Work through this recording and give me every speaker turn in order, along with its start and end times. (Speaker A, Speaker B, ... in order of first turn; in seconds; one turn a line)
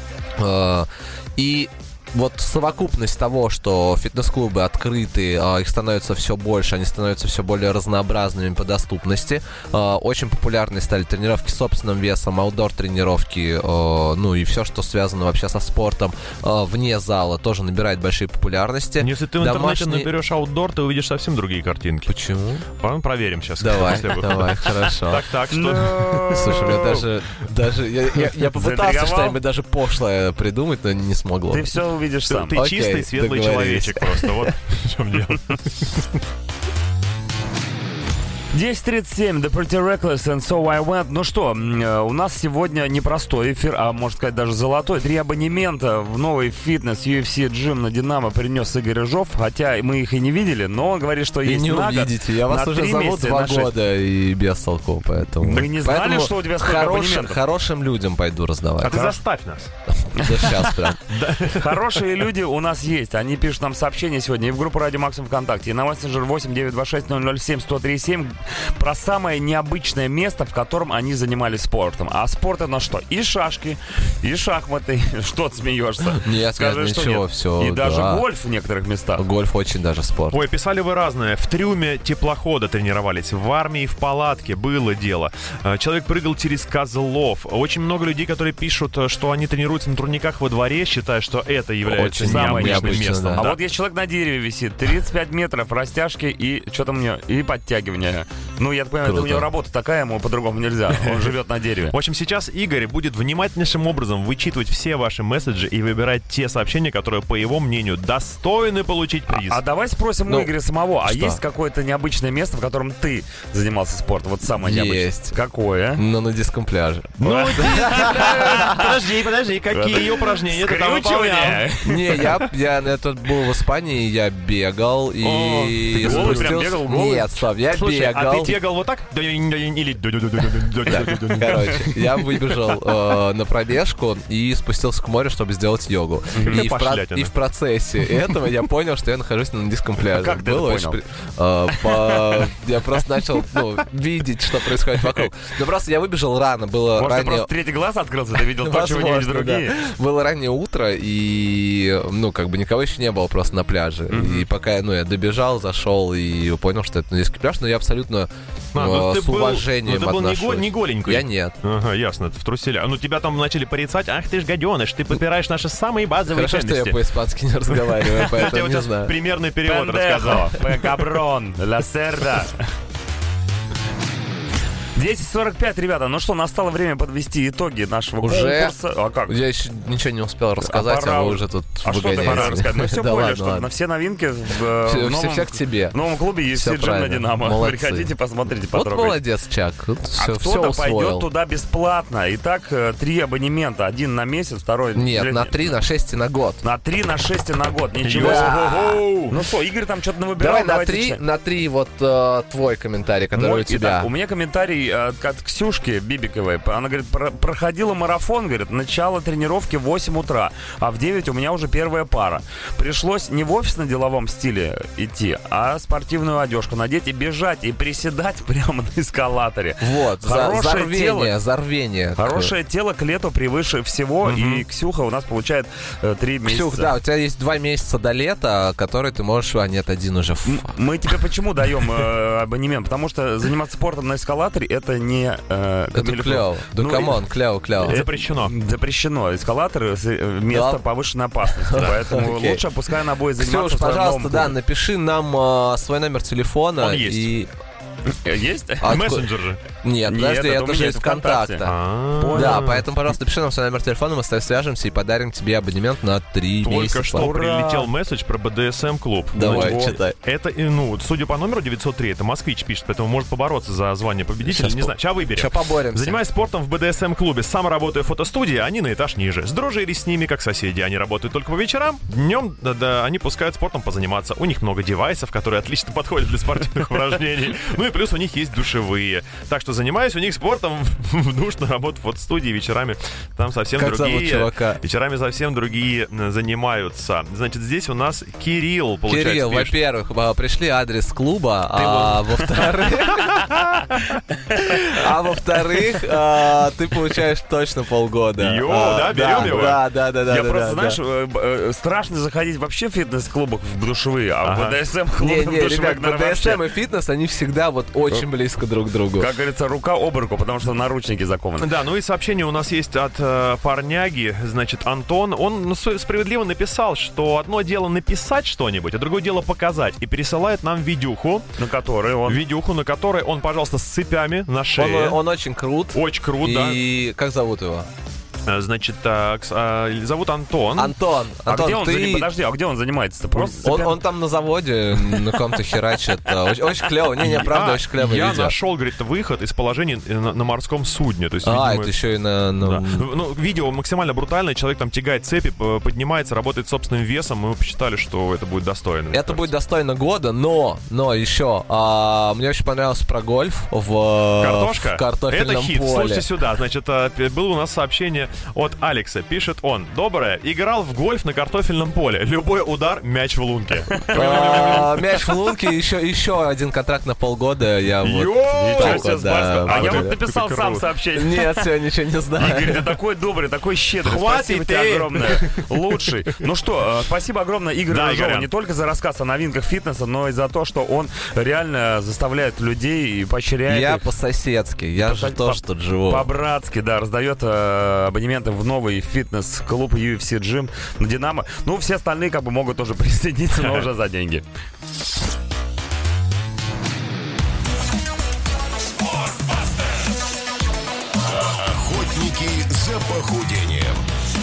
Speaker A: 0.4-20.1
Speaker B: 19.0-22.1
Speaker A: 22.1-22.7
Speaker B: 22.8-27.1
Speaker A: 23.6-25.3
Speaker C: 25.5-26.9
Speaker A: 26.3-31.7
Speaker C: 28.5-29.4
Speaker C: 31.5-32.6
Speaker B: 32.3-36.2
Speaker A: 32.5-34.5
Speaker C: 38.5-53.8
Speaker A: 51.4-59.1
Speaker C: 55.4-57.4
Speaker B: 58.8-59.7
Speaker C: 58.9-59.2
Speaker A: 60.0-61.0
Speaker C: 60.2-60.9
Speaker B: 61.1-62.0
Speaker C: 61.5-79.2
Speaker A: 76.1-78.2
Speaker A: 79.2-80.4
Speaker B: 80.3-93.6
Speaker A: 91.9-93.5
Speaker C: 92.2-102.0
Speaker A: 99.0-99.5
Speaker B: 100.9-101.3
Speaker B: 101.9-109.6
Speaker C: 109.3-116.0
Speaker A: 110.3-110.5
Speaker A: 111.0-111.4
Speaker A: 114.6-115.4
Speaker A: 116.0-118.9
Speaker B: 117.2-121.7
Speaker C: 117.4-118.9
Speaker C: 119.7-122.5
Speaker A: 121.8-128.6
Speaker B: 125.2-126.8
Speaker C: 126.0-127.3
Speaker B: 127.7-131.9
Speaker A: 130.9-147.5
Speaker C: 131.5-131.9
Speaker C: 136.3-136.6
Speaker B: 136.4-137.3
Speaker C: 140.1-141.0
Speaker C: 141.8-142.5
Speaker C: 146.9-149.8
Speaker A: 148.6-161.6
Speaker C: 154.1-154.5
Speaker B: 158.7-167.0
Speaker A: 166.3-169.1
Speaker B: 167.7-170.7
Speaker C: 169.6-172.6
Speaker C: 175.0-179.4
Speaker A: 178.2-178.8
Speaker A: 179.3-183.7
Speaker C: 180.6-189.2
Speaker B: 182.2-182.6
Speaker A: 184.8-186.0
Speaker A: 186.5-188.1
Speaker A: 188.7-191.3
Speaker C: 190.2-195.7
Speaker A: 194.9-196.6
Speaker C: 196.6-201.2
Speaker B: 198.0-199.4
Speaker A: 198.2-199.0
Speaker A: 200.4-204.1
Speaker C: 203.3-221.3
Speaker A: 219.8-222.5
Speaker C: 222.2-226.9
Speaker A: 224.2-224.6
Speaker A: 226.4-230.7
Speaker C: 230.4-237.2
Speaker A: 235.9-238.0
Speaker B: 237.8-238.5
Speaker C: 237.8-244.6
Speaker A: 240.5-240.8
Speaker A: 241.5-242.6
Speaker A: 243.4-247.5
Speaker B: 246.8-247.3
Speaker C: 248.2-249.0
Speaker A: 248.8-249.3
Speaker B: 248.8-249.6
Speaker A: 249.8-251.8
Speaker C: 250.1-251.7
Speaker B: 251.6-252.9
Speaker C: 252.2-252.6
Speaker A: 252.3-257.3
Speaker B: 256.6-289.8
Speaker C: 257.1-257.9
Speaker A: 259.3-260.2
Speaker C: 259.4-260.0
Speaker A: 264.4-266.2
Speaker A: 283.8-284.8
Speaker A: 289.1-293.5
Speaker B: 291.8-292.1
Speaker B: 293.1-294.2
Speaker A: 294.6-301.0
Speaker B: 298.4-299.8
Speaker C: 300.3-306.6
Speaker B: 304.4-304.8
Speaker A: 305.2-309.3
Speaker C: 309.1-311.7
Speaker B: 311.6-321.4
Speaker C: 321.6-322.4
Speaker B: 322.3-325.2
Speaker A: 324.8-327.9
Speaker B: 325.9-326.8
Speaker B: 328.5-330.9
Speaker A: 330.8-332.3
Speaker C: 331.5-334.0
Speaker A: 333.4-338.6
Speaker B: 337.2-342.0
Speaker A: 341.4-343.0
Speaker B: 342.6-349.5
Speaker A: 349.1-356.3
Speaker B: 354.4-365.3
Speaker A: 364.1-370.2
Speaker B: 368.0-370.9
Speaker C: 368.5-371.7
Speaker A: 371.1-372.9
Speaker C: 372.4-384.1
Speaker B: 374.1-376.2
Speaker B: 377.9-378.5
Speaker A: 383.7-386.3
Speaker C: 385.0-394.4
Speaker D: 401.5-404.1